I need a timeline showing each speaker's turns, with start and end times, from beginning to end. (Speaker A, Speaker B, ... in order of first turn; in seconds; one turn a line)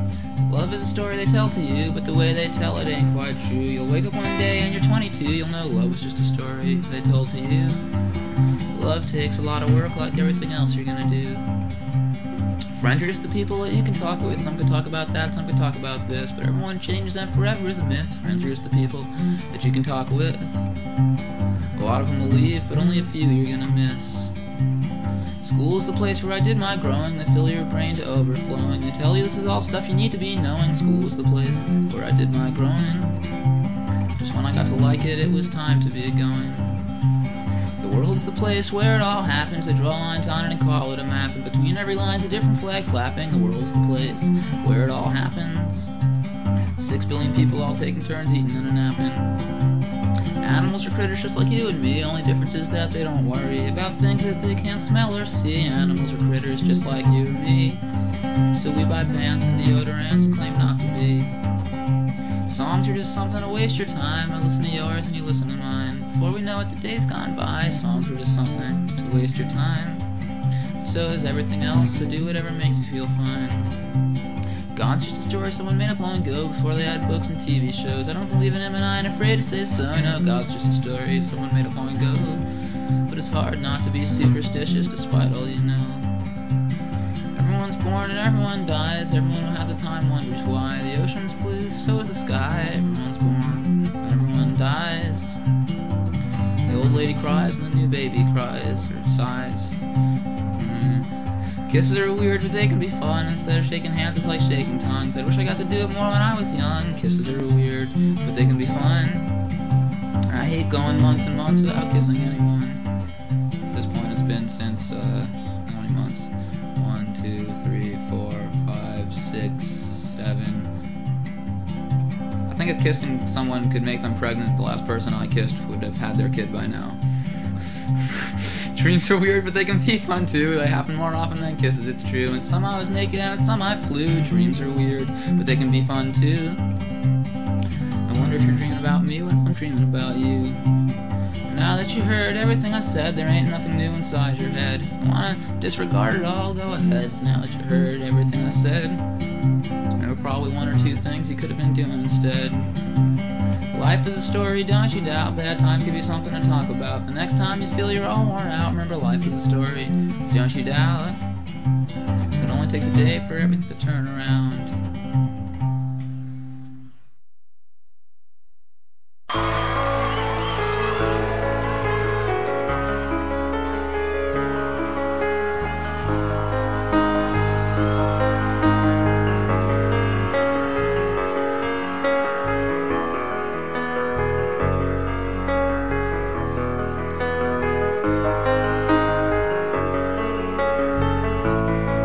Speaker A: 0.5-7.8
Speaker A: 8.7-11.4
Speaker A: 12.8-20.6
Speaker A: 21.8-24.3
Speaker A: 25.4-33.2
Speaker A: 34.2-36.8
Speaker A: 37.8-45.9
Speaker A: 46.8-49.4
Speaker A: 50.4-57.8
Speaker A: 58.5-61.3
Speaker A: 62.5-70.0
Speaker A: 70.8-73.8
Speaker A: 74.7-82.4
Speaker A: 83.1-86.0
Speaker A: 87.3-95.4
Speaker A: 96.7-99.7
Speaker A: 100.5-101.1
Speaker A: 101.7-109.3
Speaker A: 110.3-112.8
Speaker A: 113.7-120.7
Speaker A: 122.5-127.0
Speaker A: 128.8-136.6
Speaker A: 138.1-140.6
Speaker A: 141.5-149.0
Speaker A: 150.0-152.7
Speaker A: 153.7-161.2
Speaker A: 162.4-164.7